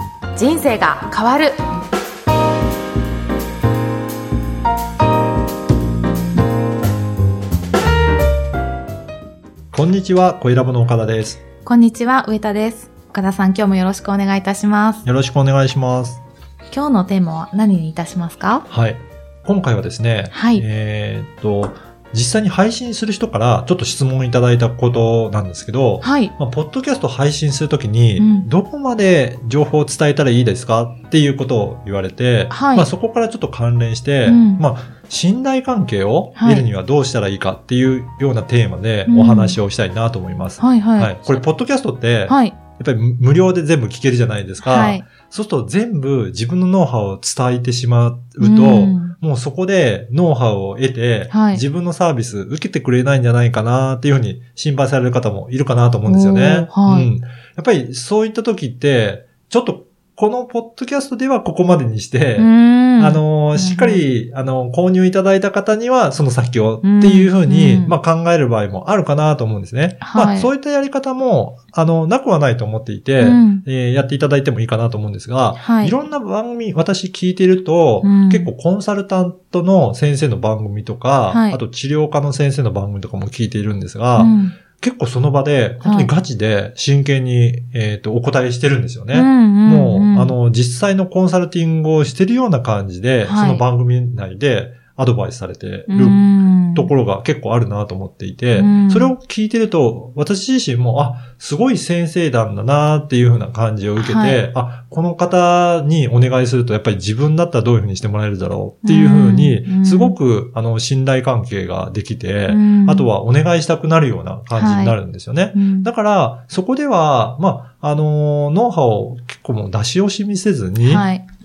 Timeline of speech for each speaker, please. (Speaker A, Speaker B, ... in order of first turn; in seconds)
Speaker A: 0.3-1.6, 11.6-15.0, 16.7-18.6, 20.3-20.6, 26.0-26.3, 28.2-28.5, 32.5-32.9, 34.2-34.6, 36.4-36.6, 39.1-39.6, 40.6-41.4, 42.3-42.6, 44.6-45.1, 48.4-49.1, 51.3-51.6, 56.0-57.1, 62.4-64.0, 66.8-67.9, 70.0-70.5, 73.2-73.6, 75.6-76.0, 78.0-78.5, 81.3-81.6, 84.2-84.5, 85.8-86.1, 89.1-90.3, 93.2-93.6, 95.9-96.9, 98.5-99.1, 104.0-104.4, 108.8-110.2, 112.5-113.1, 114.5-115.0, 115.5-115.9, 120.8-121.2
Speaker B: 9.7-11.4, 15.0-16.2, 18.7-121.1